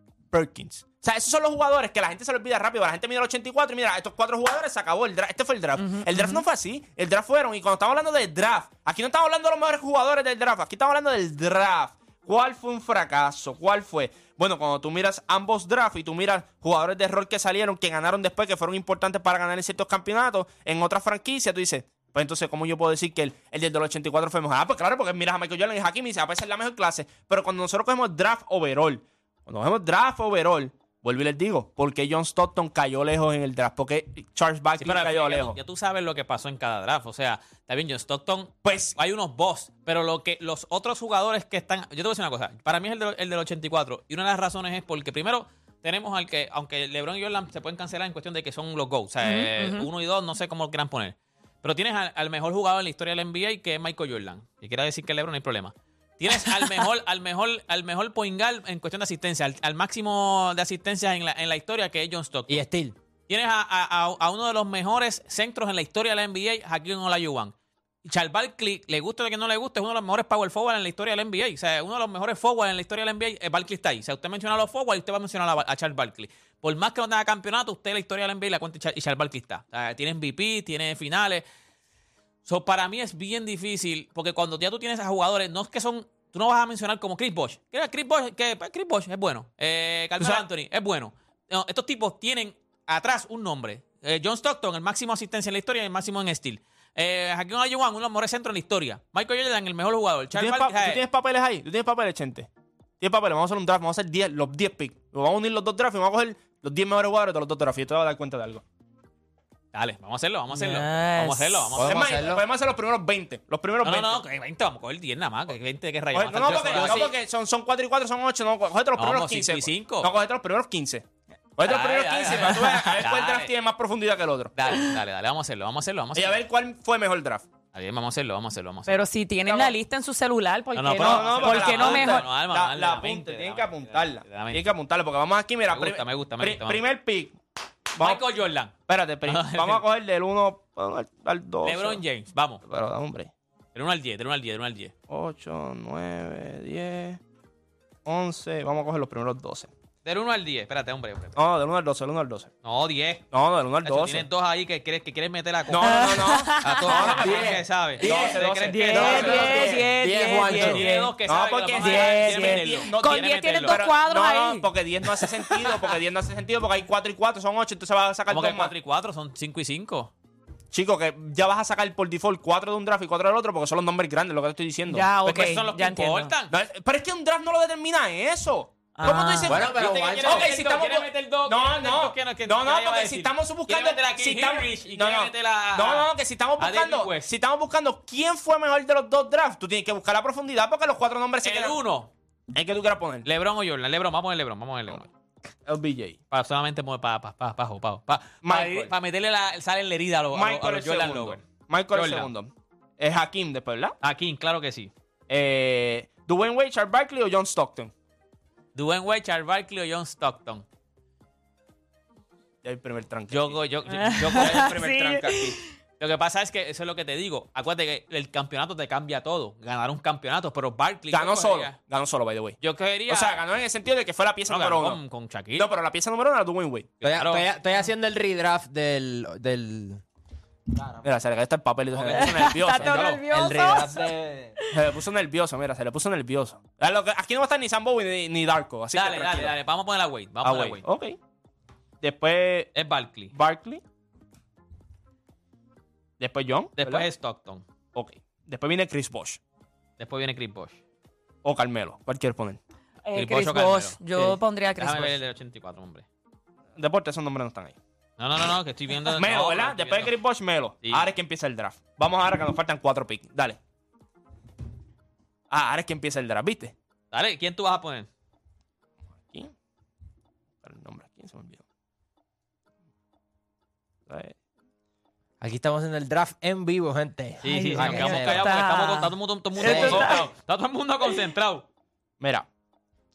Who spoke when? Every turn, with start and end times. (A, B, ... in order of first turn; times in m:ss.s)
0:00.3-0:35.6 A
0:05.8-0:06.4 B
0:34.8-1:02.6 C
0:38.6-0:39.0 A
0:49.2-0:49.9 B
1:02.5-1:03.0 D
1:03.3-1:07.5 C
1:08.0-1:21.4 C
1:22.4-1:41.0 C
1:40.3-1:42.5 A
1:43.0-1:48.6 A
1:49.7-1:52.1 C
1:50.5-1:51.7 B
1:51.7-1:52.4 D
1:51.8-1:54.2 A
1:53.8-1:57.1 C
1:56.1-2:01.0 A
1:56.6-1:57.0 D
1:59.0-2:00.1 C
2:01.6-2:04.5 A
2:01.6-2:03.5 C
2:04.6-2:06.4 C
2:06.1-2:07.5 A
2:07.7-2:09.0 C
2:08.8-2:12.2 B
2:09.4-2:09.7 A
2:10.8-2:14.6 C
2:11.0-2:17.4 A
2:15.7-2:16.8 C
2:18.0-2:18.2 A
2:18.0-2:19.8 C
2:18.9-2:22.0 A
2:21.6-2:22.6 C
2:22.6-2:23.3 A
2:23.7-2:24.9 C
2:25.1-2:27.2 A
2:28.0-2:29.7 A
2:30.0-2:31.4 C
2:31.4-2:32.5 A
2:32.6-2:33.3 C
2:33.3-2:34.3 A
2:33.8-2:39.8 C
2:35.7-2:39.8 A
2:35.8-2:37.2 B
2:37.2-2:40.8 D
2:38.7-2:41.1 B
2:40.4-2:43.8 C
2:41.2-2:48.7 A
2:41.8-2:45.7 B
2:48.3-2:50.1 C
2:50.7-2:55.0 A
2:54.9-2:56.3 B
2:55.2-2:56.5 C
2:56.5-3:11.8 A
2:59.0-2:59.5 B
2:59.1-3:07.3 C
2:59.4-3:00.5 D
3:11.4-3:12.1 C
3:12.5-3:13.2 A
3:13.2-3:15.1 C
3:15.6-3:16.2 A
3:16.3-3:22.3 C
3:18.4-3:18.9 A
3:20.3-3:24.0 A
3:24.0-3:24.9 C
3:25.3-3:27.9 A
3:28.7-3:30.6 C
3:32.6-3:33.6 A
3:33.3-3:41.7 C
3:34.0-3:35.6 B
3:41.1-3:42.6 A
3:42.6-3:43.4 C
3:43.1-3:45.0 A
3:44.5-3:45.7 C
3:45.6-3:46.9 A
3:47.0-3:47.5 C
3:47.0-3:50.0 D
3:50.7-3:51.0 D
3:51.0-3:53.1 A
3:51.9-3:53.2 C
3:52.1-3:54.8 B
3:53.1-3:54.6 D
3:54.7-3:59.5 A
3:58.9-4:00.8 C
4:00.4-4:01.2 A
4:02.0-4:02.7 A
4:02.7-4:03.3 C
4:03.3-4:03.8 A
4:06.2-4:07.0 A
4:06.8-4:07.6 C
4:07.9-4:09.4 A
4:10.0-4:10.8 C
4:11.4-4:12.6 A
4:13.0-4:15.2 B
4:13.1-4:16.0 C
4:16.8-4:17.8 A
4:18.2-4:20.2 C
4:19.1-4:23.6 A
4:20.8-4:21.1 C
4:25.5-4:26.7 A
4:27.1-4:28.1 C
4:30.6-4:31.6 A
4:34.1-4:34.3 A
4:35.4-4:38.5 D
4:37.4-4:41.6 C
4:37.8-4:40.3 B
4:39.6-4:40.1 D
4:42.2-4:42.5 A